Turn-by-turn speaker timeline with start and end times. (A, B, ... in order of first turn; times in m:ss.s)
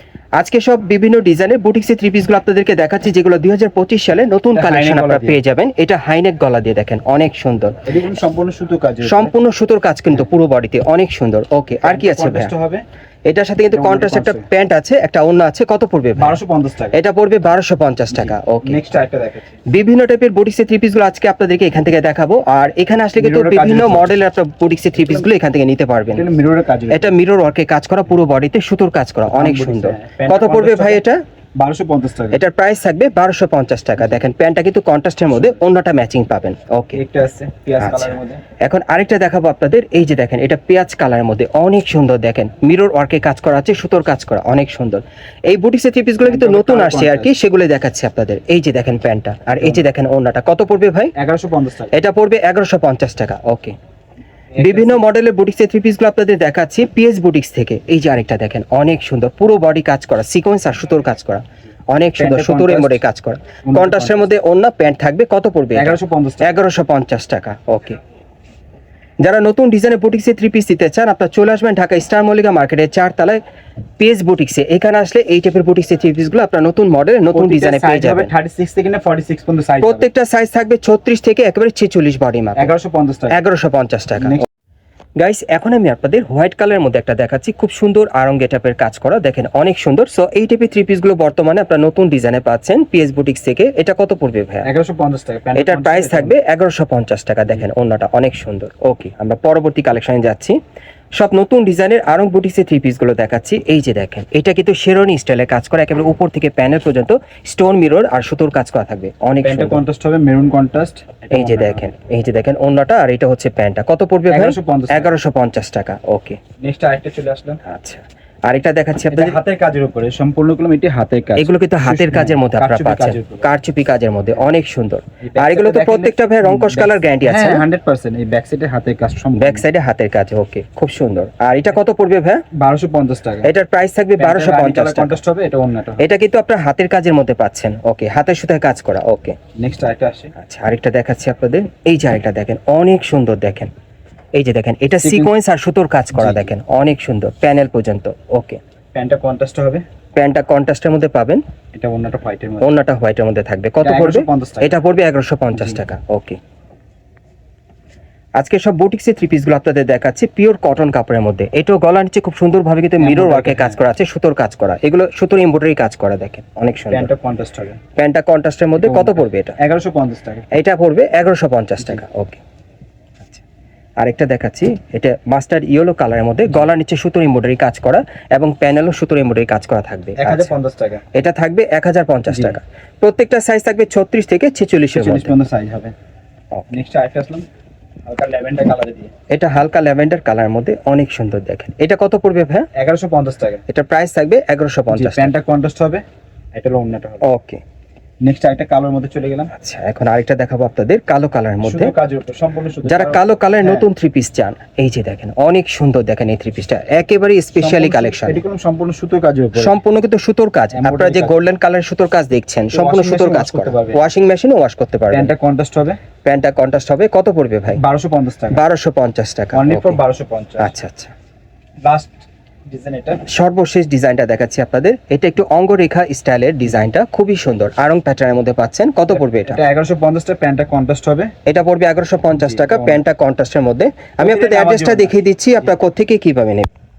0:00.4-0:07.7 A
0:04.5-0:05.4 B
0:07.8-0:09.3 B
0:09.0-0:12.5 A
0:11.8-0:12.8 B
0:13.3-0:16.4 A
0:13.7-0:14.4 B
0:16.2-0:17.0 B
0:16.9-0:18.8 A
0:18.1-0:19.6 B
0:19.7-0:26.2 A
0:23.2-0:24.2 B
0:26.1-0:27.1 B
0:26.9-0:31.2 A
0:29.3-0:31.0 B
0:31.6-0:32.4 B
0:32.3-0:37.0 A
0:36.9-0:38.4 B
0:37.8-0:51.1 A
0:46.2-0:47.3 B
0:51.2-0:51.9 B
0:51.9-0:53.7 A
0:54.6-0:55.0 B
0:54.6-1:08.0 A
1:02.2-1:03.0 B
1:03.6-1:04.3 B
1:05.7-1:06.5 B
1:09.2-1:13.4 A
1:14.0-1:18.3 A
1:17.3-1:20.0 B
1:19.8-1:22.7 A
1:22.6-1:23.4 B
1:23.3-1:24.4 A
1:25.2-1:34.7 A
1:34.6-1:36.3 B
1:35.6-1:40.6 A
1:41.2-1:49.8 A
1:49.4-1:51.8 B
1:51.3-1:56.4 A
1:54.3-1:55.1 B
1:56.6-1:57.6 B
1:57.6-1:59.4 A
1:59.1-2:03.5 B
2:01.4-2:07.6 A
2:05.2-2:09.6 B
2:09.4-2:12.4 A
2:12.5-2:13.5 B
2:13.4-2:15.2 A
2:14.2-2:16.0 B
2:16.0-2:19.4 A
2:19.6-2:20.3 B
2:20.4-2:23.7 A
2:24.3-2:28.6 A
2:25.0-2:25.3 B
2:26.1-2:26.5 B
2:28.9-2:29.8 B
2:30.2-2:31.4 A
2:31.7-2:32.7 B
2:32.6-2:36.4 A
2:33.8-2:34.7 B
2:38.4-2:47.1 A
2:43.0-2:43.8 B
2:46.9-2:47.8 B
2:48.0-2:49.6 A
2:48.8-2:50.4 B
2:50.5-2:52.4 A
2:54.0-3:00.5 A
3:00.2-3:01.0 B
3:01.1-3:05.3 A
3:02.3-3:02.6 B
3:04.9-3:05.9 B
3:06.7-3:07.4 B
3:08.0-3:09.1 B
3:09.3-3:12.7 A
3:12.7-3:13.6 B
3:13.7-3:15.3 A
3:14.9-3:17.2 B
3:17.2-3:17.6 A
3:18.2-3:19.5 B
3:19.5-3:21.9 A
3:21.6-3:23.9 B
3:22.8-3:28.4 A
3:27.5-3:29.8 B
3:29.6-3:35.3 A
3:30.7-3:31.4 B
3:32.7-3:34.0 B
3:35.1-3:36.0 B
3:36.2-3:37.8 A
3:37.7-3:38.6 B
3:38.5-3:40.0 A
3:39.5-3:40.7 B
3:40.6-3:41.1 A
3:41.8-3:42.1 B
3:42.7-3:43.2 B
3:43.2-3:49.6 A
3:49.1-3:51.3 B
3:51.4-3:56.7 A
3:52.4-3:53.0 B
3:54.2-3:55.1 B